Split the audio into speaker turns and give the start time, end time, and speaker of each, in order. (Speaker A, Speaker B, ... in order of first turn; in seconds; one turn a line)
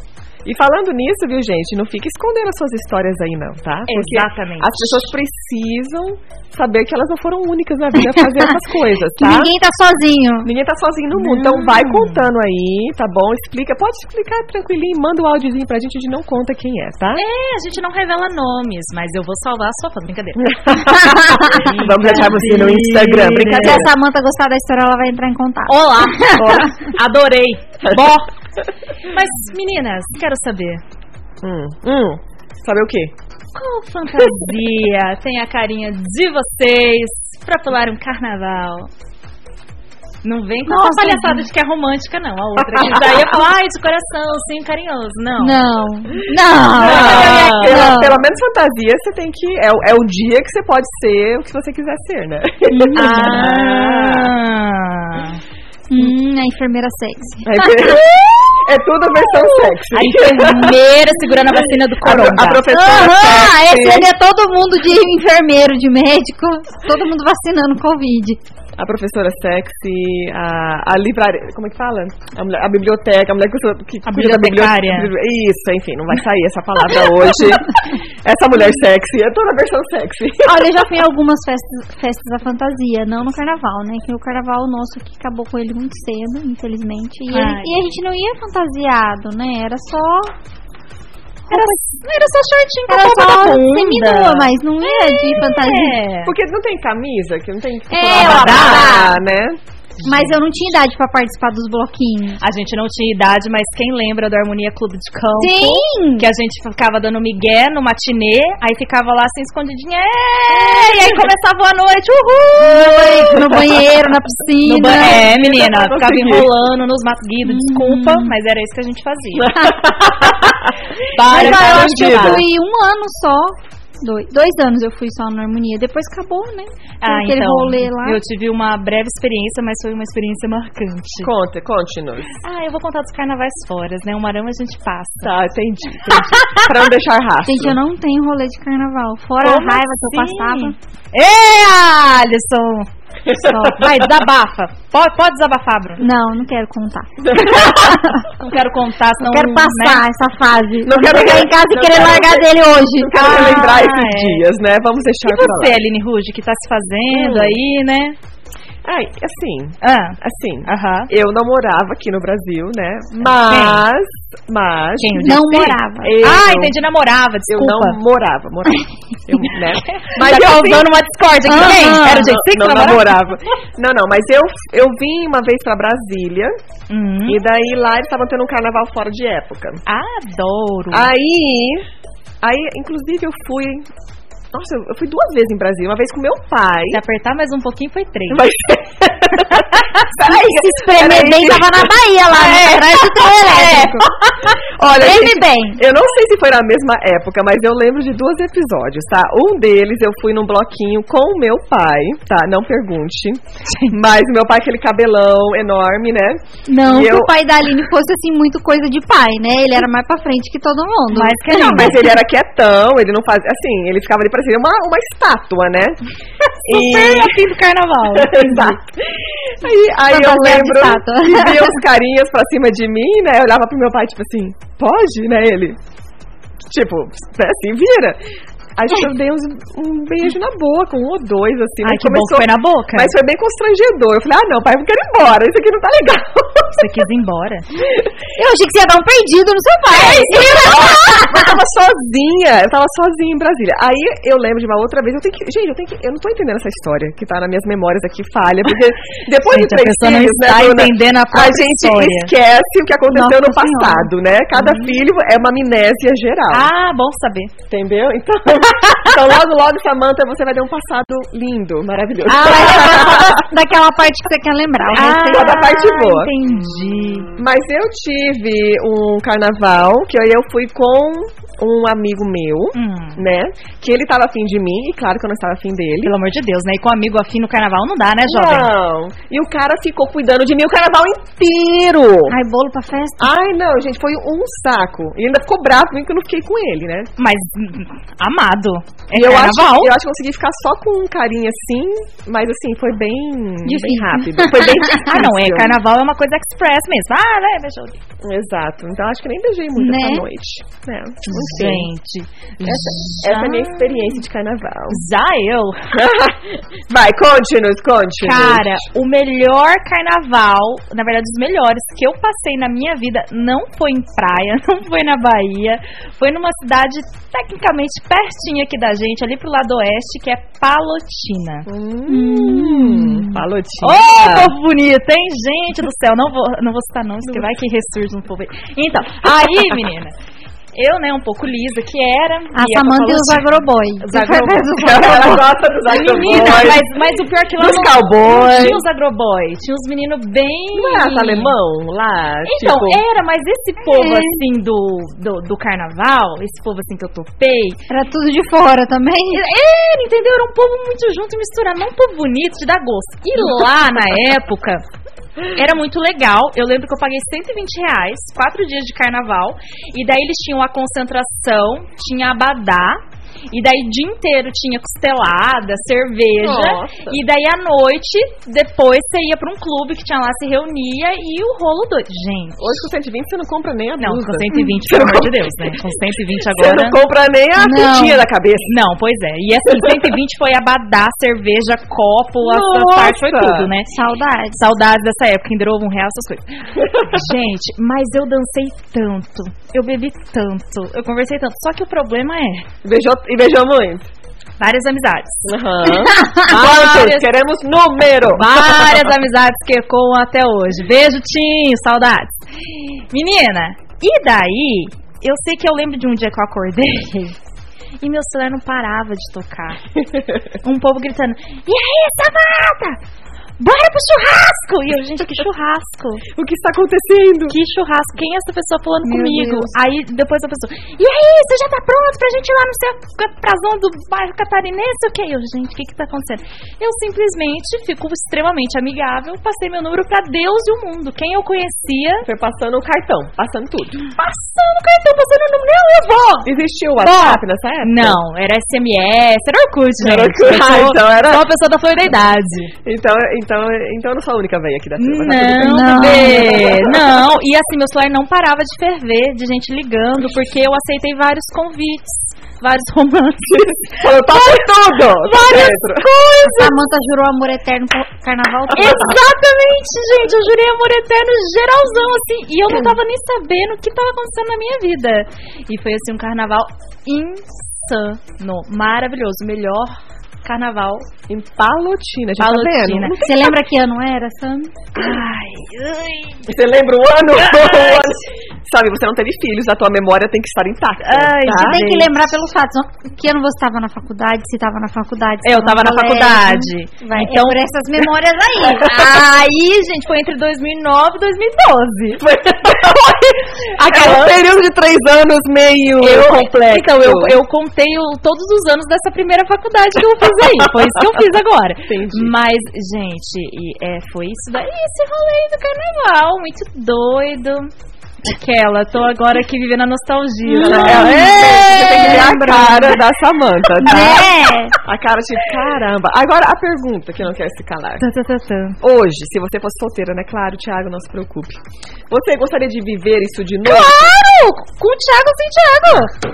Speaker A: 0.5-9.5
Speaker B: 3.9-5.1
Speaker C: 9.2-10.5
Speaker A: 10.4-17.2
Speaker B: 11.2-12.3
Speaker B: 17.2-23.8
Speaker A: 20.4-23.9
Speaker C: 23.4-26.7
Speaker B: 25.7-28.3
Speaker A: 26.4-26.7
Speaker B: 29.0-30.8
Speaker A: 31.4-33.1
Speaker B: 33.5-38.9
Speaker B: 40.2-45.7
Speaker C: 40.7-41.5
Speaker A: 42.6-43.4
Speaker C: 45.4-48.2
Speaker A: 46.7-54.3
Speaker B: 46.8-47.9
Speaker C: 52.7-53.5
Speaker B: 53.0-55.4
Speaker C: 55.9-58.0
Speaker A: 57.5-60.8
Speaker B: 59.9-62.6
Speaker A: 61.5-64.1
Speaker C: 62.7-68.4
Speaker A: 68.8-80.8
Speaker B: 74.1-75.1
Speaker C: 80.4-90.3
Speaker B: 87.3-87.8
Speaker C: 91.5-91.8
Speaker B: 91.5-96.3
Speaker C: 92.9-96.0
Speaker A: 96.2-99.6
Speaker C: 97.9-99.2
Speaker B: 98.1-99.0
Speaker B: 100.0-100.4
Speaker C: 100.0-102.4
Speaker B: 102.4-113.6
Speaker C: 105.4-106.3
Speaker A: 110.7-111.1
Speaker C: 112.6-115.2
Speaker A: 113.2-113.6
Speaker B: 114.6-119.5
Speaker A: 115.0-116.5
Speaker C: 117.4-118.3
Speaker A: 119.3-122.5
Speaker B: 121.1-122.4
Speaker C: 121.3-128.2
Speaker B: 127.0-131.3
Speaker A: 131.2-132.4
Speaker B: 132.4-135.3
Speaker A: 135.2-137.8
Speaker B: 136.1-136.7
Speaker C: 137.4-140.8
Speaker B: 139.4-142.9
Speaker A: 143.3-143.7
Speaker C: 143.4-143.8
Speaker B: 143.4-146.0
Speaker C: 146.0-148.3
Speaker A: 147.2-148.1
Speaker B: 148.4-150.0
Speaker C: 149.2-153.7
Speaker A: 150.8-155.8
Speaker B: 153.1-154.4
Speaker B: 155.2-158.2
Speaker A: 157.1-157.6
Speaker A: 158.8-166.8
Speaker B: 159.8-161.1
Speaker B: 163.2-163.8
Speaker B: 165.0-168.0
Speaker C: 165.2-166.2
Speaker A: 167.5-176.6
Speaker B: 169.9-173.3
Speaker C: 171.5-172.3
Speaker B: 176.9-177.4
Speaker A: 177.3-179.8
Speaker B: 179.9-181.1
Speaker A: 180.9-181.8
Speaker A: 182.4-183.9
Speaker A: 184.5-187.0
Speaker B: 186.9-188.5
Speaker A: 188.3-207.3
Speaker C: 190.3-194.1
Speaker C: 194.8-195.8
Speaker B: 203.7-203.9
Speaker C: 206.7-212.0
Speaker B: 211.1-212.0
Speaker A: 211.5-216.0
Speaker A: 216.6-217.4
Speaker B: 216.7-218.8
Speaker A: 218.1-225.8
Speaker C: 220.1-221.8
Speaker A: 226.7-228.2
Speaker A: 228.8-237.1
Speaker B: 231.8-233.1
Speaker B: 236.8-237.7
Speaker C: 238.4-241.5
Speaker A: 239.9-256.7
Speaker B: 249.4-252.3
Speaker C: 253.1-254.1
Speaker B: 254.6-255.0
Speaker B: 256.5-257.5
Speaker A: 257.7-263.5
Speaker C: 262.3-265.8
Speaker A: 264.9-266.3
Speaker B: 264.9-267.3
Speaker A: 267.4-276.1
Speaker B: 272.7-273.2
Speaker B: 276.0-278.7
Speaker A: 278.3-282.4
Speaker C: 282.3-283.3
Speaker A: 283.2-287.1
Speaker B: 287.2-289.9
Speaker A: 289.1-295.7
Speaker C: 293.6-295.2
Speaker B: 294.5-298.0
Speaker A: 298.2-301.9
Speaker C: 299.8-300.3
Speaker B: 301.3-304.1
Speaker A: 302.6-305.0
Speaker B: 304.9-305.9
Speaker A: 305.9-308.9
Speaker B: 308.2-321.7
Speaker A: 321.7-324.5
Speaker C: 322.1-323.4
Speaker B: 323.8-330.1
Speaker B: 330.7-333.5
Speaker C: 332.5-335.5
Speaker B: 334.0-341.6
Speaker A: 334.8-337.0
Speaker A: 337.6-338.8
Speaker A: 340.7-343.0
Speaker B: 342.4-347.8
Speaker C: 343.9-344.4
Speaker C: 347.9-349.4
Speaker B: 349.3-354.9
Speaker B: 355.5-372.7
Speaker A: 366.4-367.2
Speaker A: 372.6-375.8
Speaker B: 374.0-377.0
Speaker A: 376.5-378.7
Speaker C: 377.6-378.2
Speaker B: 378.7-383.9
Speaker A: 382.4-383.7
Speaker C: 383.9-384.6
Speaker B: 384.6-392.7
Speaker A: 386.8-387.1
Speaker A: 392.8-394.1
Speaker B: 394.6-395.5
Speaker A: 395.5-399.1
Speaker B: 396.4-397.3
Speaker B: 398.3-407.4
Speaker B: 408.0-409.8
Speaker B: 410.6-413.0
Speaker B: 413.6-416.2
Speaker A: 416.3-417.6
Speaker B: 417.5-432.3
Speaker C: 419.1-419.7
Speaker A: 432.2-434.1
Speaker B: 434.1-442.7
Speaker A: 436.4-438.2
Speaker A: 440.0-441.5
Speaker A: 442.8-447.1
Speaker B: 445.0-456.7
Speaker C: 445.6-446.8
Speaker A: 453.5-456.1
Speaker C: 456.4-459.2
Speaker A: 458.7-459.1
Speaker B: 458.7-471.1
Speaker A: 471.3-473.4
Speaker B: 472.4-473.2
Speaker C: 473.2-474.9
Speaker B: 474.9-476.5
Speaker A: 476.5-481.9
Speaker B: 477.4-478.2
Speaker B: 481.0-482.1
Speaker C: 481.5-489.0
Speaker B: 485.4-487.6
Speaker B: 488.7-492.2
Speaker A: 492.2-497.4
Speaker B: 493.7-494.4
Speaker B: 496.0-507.7
Speaker A: 500.5-501.0
Speaker A: 501.9-502.3
Speaker B: 508.2-512.8
Speaker C: 510.5-513.0
Speaker A: 510.6-514.3
Speaker C: 513.8-514.8
Speaker A: 514.8-518.0
Speaker B: 518.0-518.8
Speaker A: 518.8-524.1
Speaker B: 523.6-526.1